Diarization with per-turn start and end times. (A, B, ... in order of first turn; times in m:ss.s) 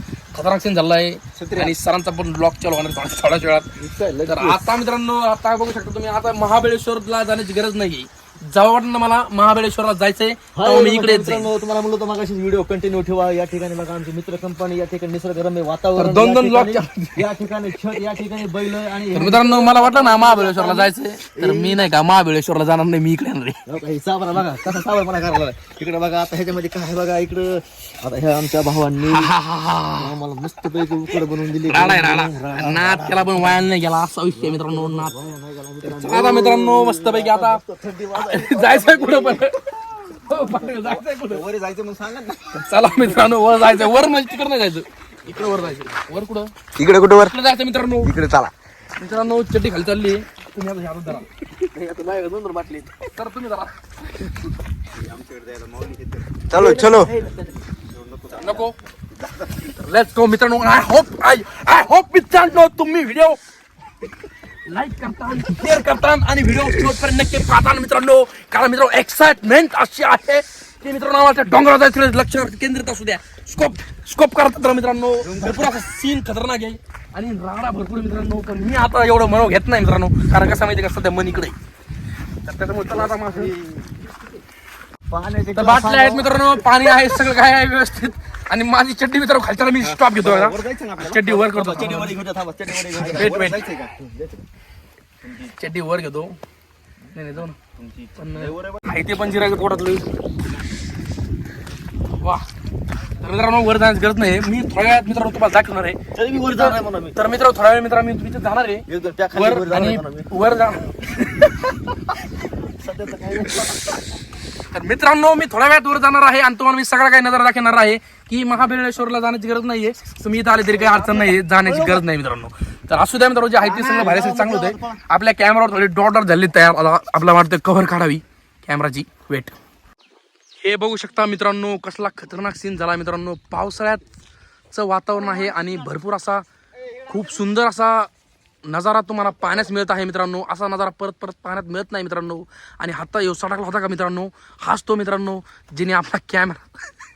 0:00.3-0:03.7 A
0:01.4-0:01.7 B
0:03.8-0:04.6 C
0:04.3-0:11.5 A
0:10.5-0:21.9 C
0:16.0-0:17.3 A
0:19.1-0:23.6 A
0:23.7-0:29.3 C
0:29.0-0:30.2 A
0:30.0-0:33.5 C
0:31.2-0:35.2 A
0:34.4-0:39.4 C
0:35.8-0:41.5 A
0:40.7-0:42.6 B
0:42.5-0:46.5 A
0:46.8-0:47.4 B
0:47.1-0:48.1 A
0:48.0-0:48.5 B
0:49.0-0:51.3 A
0:51.6-0:53.1 C
0:53.1-0:53.8 A
0:54.9-0:57.1 B
0:56.5-0:57.6 C
0:57.8-0:58.7 B
0:58.4-0:58.8 A
0:59.6-1:03.4 A
1:04.7-1:21.6 A
1:22.4-1:23.6 A
1:23.3-1:23.8 B
1:25.1-1:26.4 C
1:25.5-1:32.2 A
1:29.8-1:31.6 B
1:31.5-1:33.3 C
1:32.7-1:33.7 A
1:32.9-1:34.3 B
1:35.4-1:36.4 A
1:37.1-1:37.6 A
1:37.8-1:38.9 B
1:38.2-1:40.0 A
1:42.2-1:42.4 A
1:43.2-1:51.8 A
1:46.1-1:47.2 C
1:48.9-1:50.3 C
1:52.6-1:53.9 C
1:53.5-1:53.9 A
1:54.7-2:09.6 A
2:00.7-2:02.0 C
2:03.6-2:05.0 C
2:10.6-2:14.0 A
2:14.7-2:18.1 A
2:18.6-2:26.6 A